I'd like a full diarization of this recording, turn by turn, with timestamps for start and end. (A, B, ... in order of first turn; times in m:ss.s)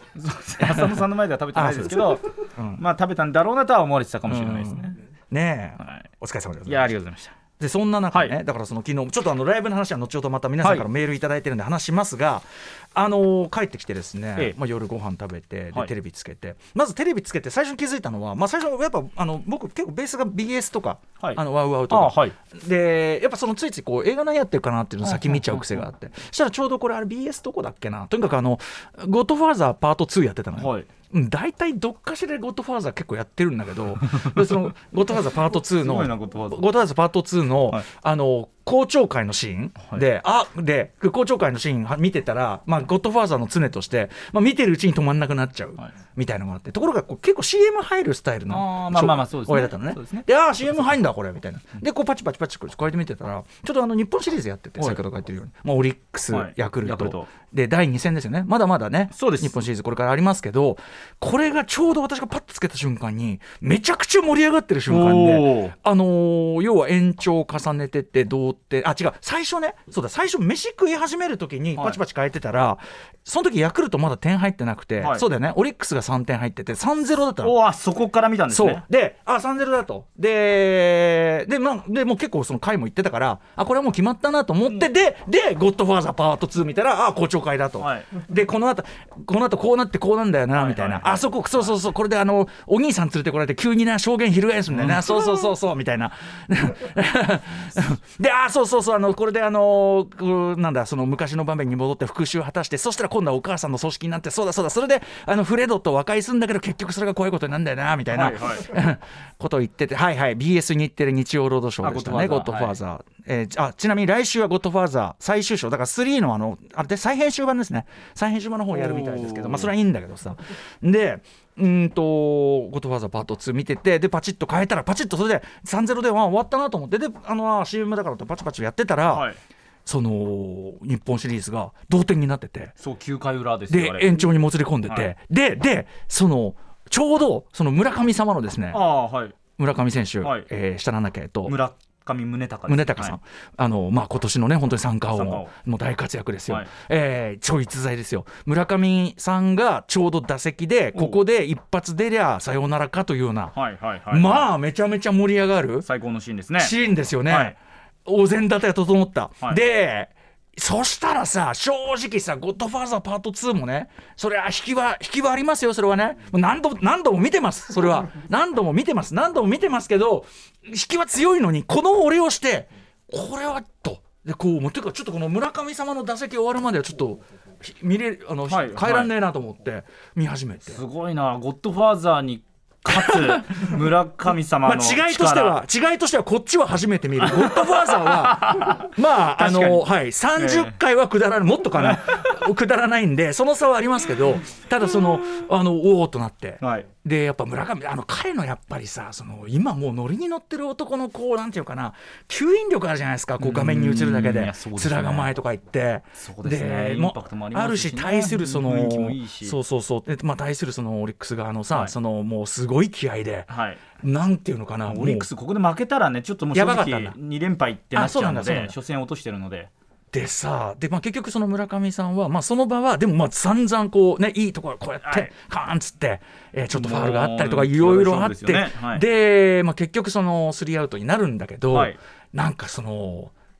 0:00.2-0:02.2 A
0:00.6-0:02.8 B
0:02.8-0:05.0 A
0:04.3-0:06.9 B
0:06.6-0:07.4 A
0:07.6-1:17.5 B
0:21.2-0:22.4 A
0:30.6-0:30.9 A
0:35.8-0:36.6 A
0:48.5-0:50.2 A
0:56.3-0:57.3 A
0:59.1-0:59.5 A
1:04.9-1:05.7 A
1:17.4-1:18.8 A
1:18.5-2:09.3 B
1:27.8-1:28.1 A
1:30.5-1:31.3 A
1:34.7-1:35.1 A
1:48.1-1:48.7 A
1:51.8-1:52.8 A
1:58.7-1:59.7 A
2:09.1-2:09.4 A
2:09.8-2:12.7 B
2:12.8-2:14.2 A
2:13.7-2:18.8 B
2:18.7-2:19.4 A
2:19.6-2:21.6 B
2:20.2-2:20.5 A
2:21.4-2:23.2 A
2:22.7-2:33.6 B
2:25.1-2:25.5 A
2:30.9-2:31.2 A
2:33.5-2:34.5 A
2:34.1-2:35.9 B
2:35.8-2:36.7 A
2:36.6-3:00.8 B
2:37.3-2:37.6 A
2:58.5-2:59.1 A
3:00.7-3:05.6 A
3:02.9-3:03.8 B
3:04.6-3:35.3 B
3:07.2-3:10.7 A
3:11.8-3:12.2 A
3:16.6-3:16.9 A
3:23.4-3:25.3 A
3:26.2-3:29.6 A
3:33.5-3:33.8 A
3:34.9-3:39.7 A
3:36.5-3:37.2 B
3:37.9-3:38.8 B
3:40.1-3:53.3 B
3:45.0-3:45.3 A
3:46.7-3:49.0 A
3:51.7-3:52.0 A